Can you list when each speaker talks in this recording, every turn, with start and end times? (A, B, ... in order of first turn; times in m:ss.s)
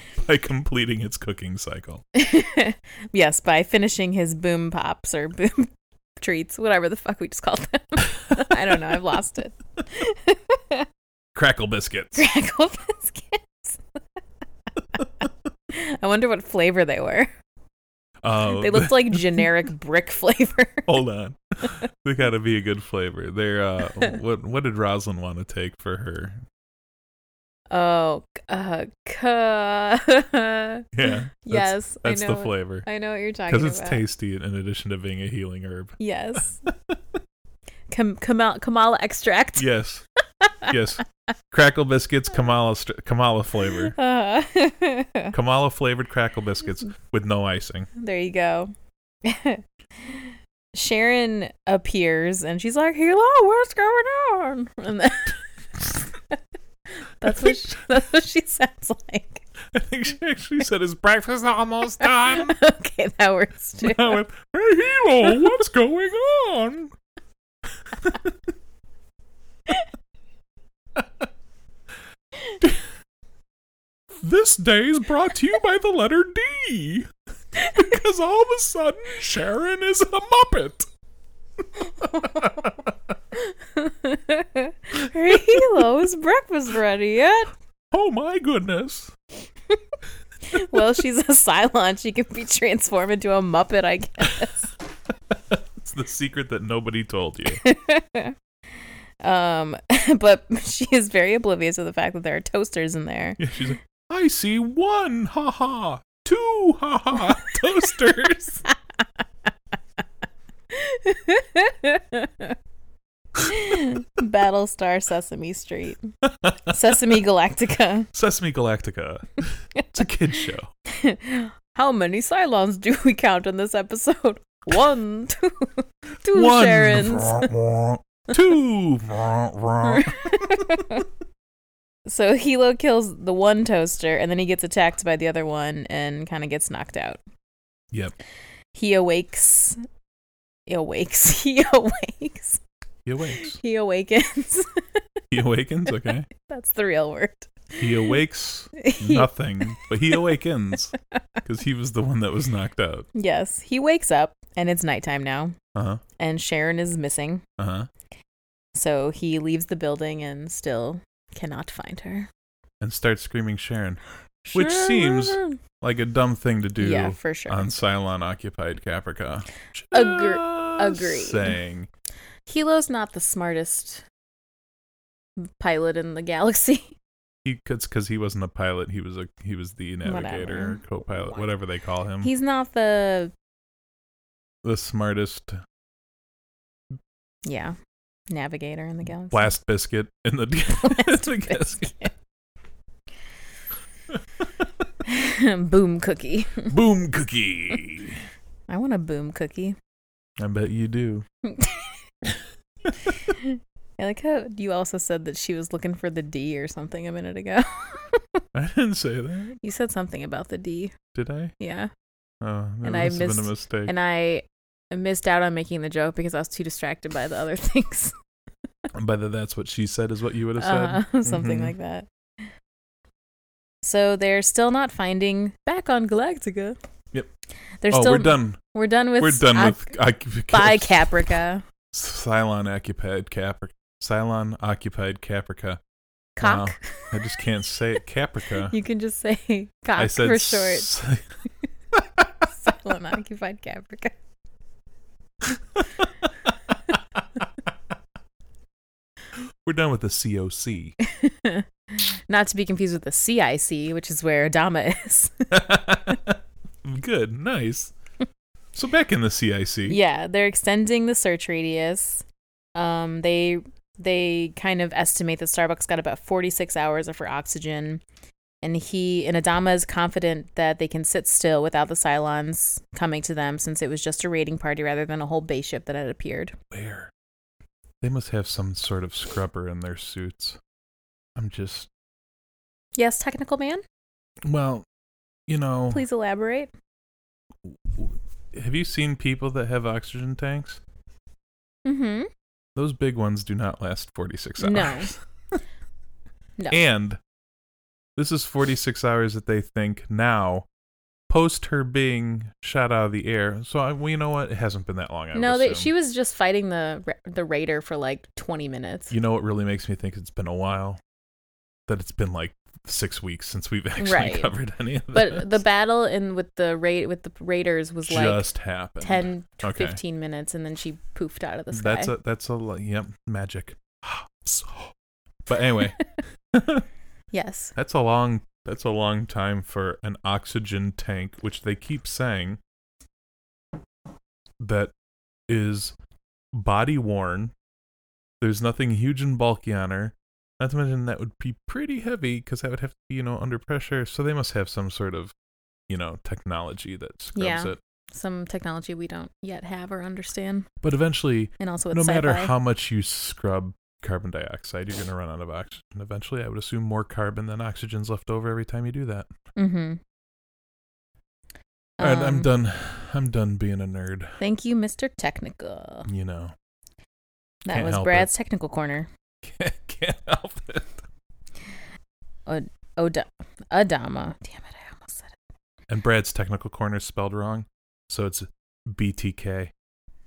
0:00.2-0:02.0 A
0:02.1-0:10.9 B
0:11.3-0:12.3 A
0:12.2-0:13.8 B
0:15.0-0:17.3 B
0:18.2-0:19.5 A
0:18.4-0:21.0 B
0:20.9-0:26.4 A
0:27.7-0:34.0 B
0:30.9-0:32.9 A
0:33.5-0:37.0 A
0:36.0-0:36.7 B
0:37.9-0:39.7 B
0:39.6-0:40.0 A
0:40.4-0:40.7 B
0:40.6-0:43.9 A
0:43.8-0:45.3 B
0:45.3-0:47.9 A
0:48.0-0:48.7 B
0:49.2-0:56.4 B
0:57.0-0:59.4 B
0:57.2-0:57.6 A
0:59.7-1:02.6 A
1:02.0-1:04.2 B
1:03.8-1:06.9 A
1:07.8-1:08.3 A
1:14.2-1:20.9 A
1:22.0-1:22.5 B
1:22.0-1:22.9 A
1:23.3-1:27.5 B
1:25.3-1:25.8 A
1:27.9-1:29.1 A
1:30.5-1:34.7 B
1:35.3-1:37.6 A
1:37.6-1:38.4 B
1:39.2-1:43.4 B
1:43.4-1:48.6 A
1:50.7-1:52.6 B
1:53.4-1:56.1 B
1:56.2-1:56.8 A
1:56.7-1:58.1 B
1:58.1-2:00.7 A
2:00.9-2:07.5 B
2:06.3-2:10.6 A
2:09.8-2:11.1 B
2:12.0-2:17.2 B
2:17.9-2:18.2 A
2:18.7-2:19.8 B
2:20.7-2:22.6 B
2:23.0-2:23.6 A
2:23.2-2:25.0 B
2:25.3-2:26.3 A
2:25.9-2:28.1 B
2:27.8-2:33.1 A
2:28.8-2:30.2 B
2:33.1-2:35.5 B
2:35.7-2:36.0 A
2:36.2-2:37.4 B
2:37.6-2:37.9 A
2:38.7-2:42.3 B
2:42.8-2:44.0 A
2:44.4-2:45.6 B
2:44.5-2:51.9 A
2:46.8-2:47.7 B
2:49.9-2:51.6 B
2:52.5-2:54.0 B
2:55.4-2:57.0 B
2:57.4-3:02.3 A
3:00.0-3:00.8 B
3:02.2-3:03.3 B
3:04.6-3:05.6 A
3:07.4-3:07.8 B
3:08.3-3:09.5 B
3:09.3-3:11.9 A
3:10.8-3:12.1 B
3:15.0-3:16.7 B
3:16.7-3:18.2 A
3:18.7-3:19.8 B
3:20.4-3:21.2 A
3:21.4-3:22.0 B
3:23.0-3:28.4 B
3:28.5-3:29.6 A
3:29.6-3:30.9 B
3:31.1-3:31.5 A
3:31.6-3:31.9 B
3:32.4-3:33.9 A
3:32.8-3:38.1 B
3:38.9-3:41.7 A
3:40.6-3:42.5 B
3:43.8-3:46.8 B
3:47.8-3:49.9 B
3:47.9-3:48.6 A
3:49.2-3:51.3 A
3:50.5-3:51.6 B
3:51.9-3:55.8 A
3:56.4-3:57.4 B
3:56.4-3:58.7 A
3:58.6-4:00.9 B
4:00.0-4:01.3 A
4:01.9-4:02.3 A
4:02.5-4:04.2 B
4:09.3-4:11.0 A
4:11.0-4:15.6 B
4:15.5-4:17.9 A
4:18.7-4:20.0 A
4:19.9-4:28.0 B
4:28.6-4:36.6 B
4:36.7-4:37.1 A
4:38.0-4:40.6 A
4:41.4-4:41.9 A
4:43.0-4:43.8 B
4:44.4-4:44.8 A
4:45.5-4:46.0 A
4:45.9-4:46.7 B
4:47.6-4:50.8 A
4:51.8-4:52.3 B
4:52.8-4:55.6 A
4:54.6-4:55.1 B
4:56.7-4:57.2 A
4:58.2-5:00.7 A
5:01.3-5:05.9 A
5:05.3-5:09.1 B
5:09.1-5:11.0 A
5:11.9-5:15.6 A
5:14.0-5:14.5 B
5:15.1-5:18.5 B
5:18.1-5:20.0 A
5:19.0-5:22.1 B
5:21.7-5:24.9 A
5:25.4-5:26.8 A
5:27.3-5:27.7 B
5:27.8-5:32.6 A
5:34.6-5:34.9 A
5:35.5-5:35.9 A
5:36.5-5:37.5 A
5:38.4-5:45.3 A
5:45.9-5:47.8 A
5:47.4-5:50.7 B
5:50.8-5:59.3 A
5:51.6-5:52.5 B
5:59.6-6:00.0 B
6:02.0-6:02.5 B
6:02.0-6:04.4 A
6:04.4-6:06.1 B
6:06.1-6:06.5 A
6:07.6-6:09.1 B
6:07.7-6:08.3 A
6:09.4-6:11.0 A
6:12.4-6:15.4 B
6:15.9-6:19.7 A